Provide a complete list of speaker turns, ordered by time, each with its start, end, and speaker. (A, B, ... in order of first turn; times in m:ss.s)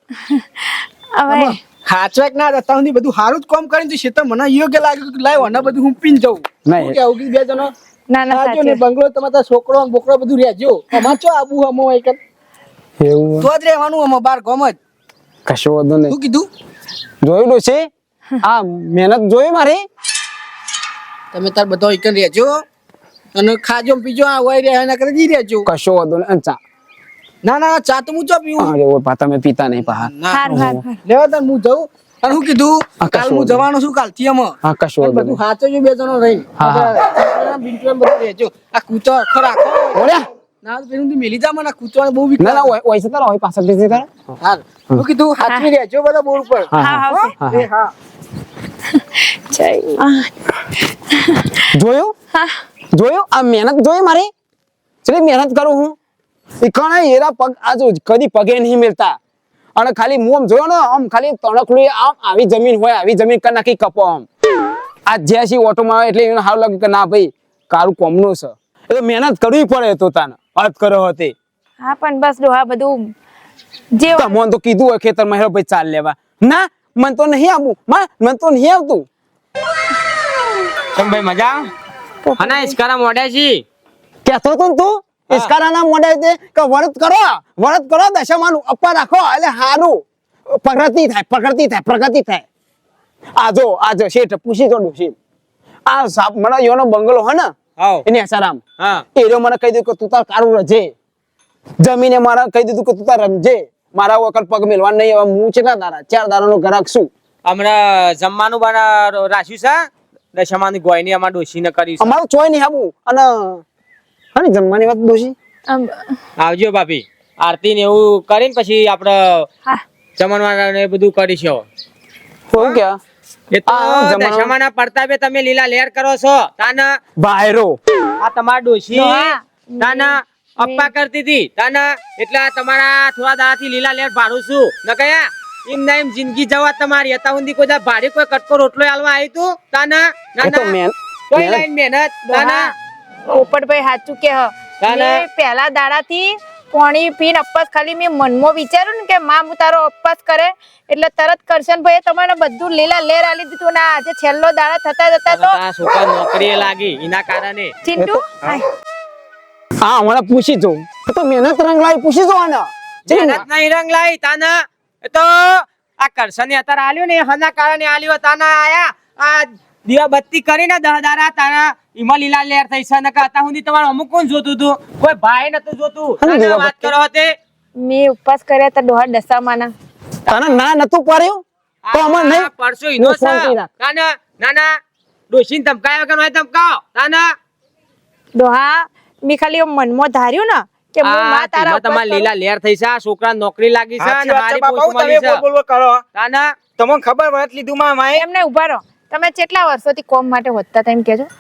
0:00.2-0:01.6 A
0:01.3-0:07.7 B
0:06.7-0:07.0 C
0:08.1-0:08.8 A
0:08.3-0:12.2 B
0:13.0-0:13.5 C
0:13.4-0:14.8 B
0:15.5-0:16.2 C
0:16.1-0:16.5 B
0:17.2-0:17.9 C
0:18.4-0:19.8 C
0:21.3-0:22.6 B
0:23.3-0:25.7 B
0:25.6-0:26.6 C
0:27.4-0:28.7 B
0:28.6-0:30.8 C
0:29.9-0:42.7 B
0:30.3-0:31.0 A
0:33.0-0:33.7 C
0:34.6-0:35.4 C
0:36.6-0:37.0 C
0:40.0-0:40.3 C
0:42.4-0:44.1 C
0:44.4-0:47.9 B
0:46.7-0:47.7 C
0:46.8-0:47.3 A
0:48.9-0:50.3 A
0:50.9-0:51.6 A
0:51.7-0:52.1 C
0:52.3-0:52.6 A
0:52.9-0:54.3 C
0:55.0-0:56.0 C
0:56.6-0:59.2 C
0:59.8-1:04.3 C
1:05.1-1:11.3 C
1:11.8-1:13.1 A
1:14.0-1:14.3 A
1:14.1-1:19.1 C
1:20.9-1:21.7 D
1:22.2-1:22.8 A
1:22.4-1:23.6 D
1:24.2-1:32.5 C
1:33.4-1:35.2 C
1:35.9-1:38.6 C
1:37.8-1:38.0 D
1:38.8-1:39.0 D
1:39.2-1:40.9 C
1:41.8-1:47.1 C
1:47.4-1:52.2 D
1:52.0-1:53.6 C
1:54.4-1:55.3 C
1:55.7-1:56.1 A
1:56.4-1:59.5 D
2:00.2-2:01.6 D
2:02.5-2:03.0 C
2:03.5-2:07.0 D
2:03.7-2:04.5 C
2:07.2-2:07.8 C
2:08.2-2:20.8 D
2:08.9-2:10.9 A
2:20.4-2:21.6 C
2:21.3-2:22.7 D
2:22.3-2:22.7 A
2:23.3-2:35.6 A
2:24.8-2:25.2 D
2:35.3-2:37.7 D
2:37.8-2:38.7 A
2:38.0-2:38.3 C
2:39.8-2:43.4 C
2:43.1-2:57.3 D
2:56.2-2:56.9 C
2:57.8-2:59.7 A
3:00.3-3:03.7 C
3:01.8-3:04.8 D
3:05.3-3:07.3 D
3:08.4-3:12.3 A
3:11.0-3:15.4 D
3:14.0-3:16.0 E
3:16.2-3:16.6 D
3:16.8-3:18.2 E
3:18.2-3:21.3 A